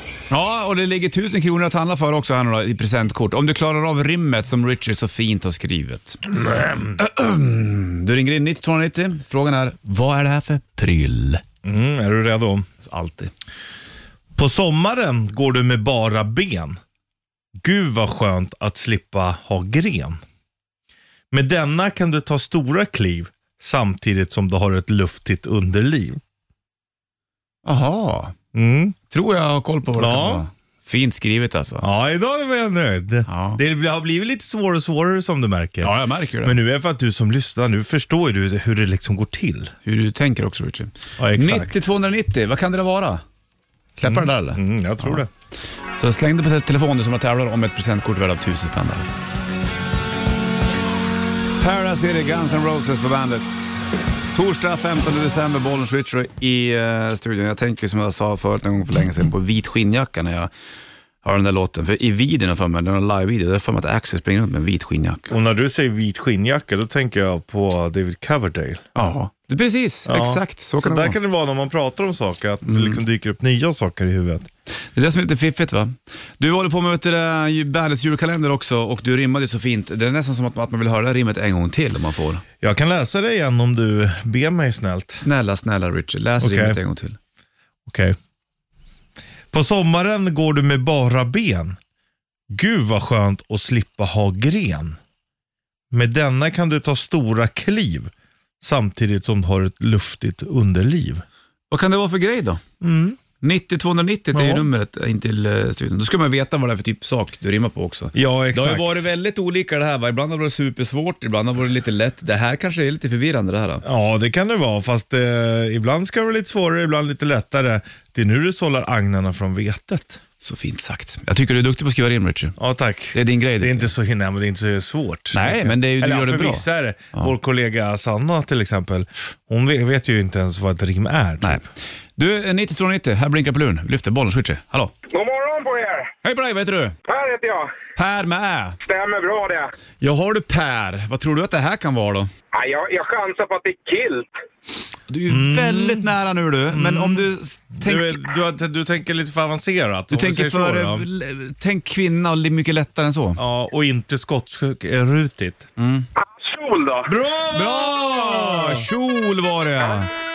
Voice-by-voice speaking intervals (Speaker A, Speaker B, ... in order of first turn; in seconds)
Speaker A: 0.3-6.4, 7.0-11.4, 12.8-13.3, 27.6-28.4, 29.1-31.9, 33.3-33.6, 35.8-36.6, 39.9-43.2, 44.0-45.2, 46.0-49.1, 51.6-60.5, 61.2-65.3, 69.0-71.2, 72.7-73.0, 74.9-82.4, 85.2-87.2, 101.7-102.6, 103.4-113.8, 120.4-122.6, 123.1-123.9, 125.3-127.3, 131.4-134.9, 136.2-136.9, 138.0-138.8, 140.0-142.3, 145.1-148.2, 150.1-153.4, 155.8-156.1, 157.5-160.1
Speaker B: 6.5-6.7, 11.6-12.7, 14.4-16.8, 17.6-20.2, 21.3-26.2, 28.5-29.0, 30.0-30.4, 31.8-39.7, 41.2-41.8, 44.0-45.3, 65.3-68.8, 70.1-74.5, 82.6-85.2, 86.4-86.8, 87.9-88.2, 89.5-91.8, 92.5-95.0, 95.9-101.2, 102.8-103.2, 104.3-104.7, 108.1-109.1, 113.8-120.2, 122.6-131.7, 145.3-146.1, 146.7-151.1, 153.4-155.7, 157.1-158.9
Speaker C: 135.1-136.1, 137.1-137.7, 138.8-139.7, 142.5-144.3, 156.2-157.1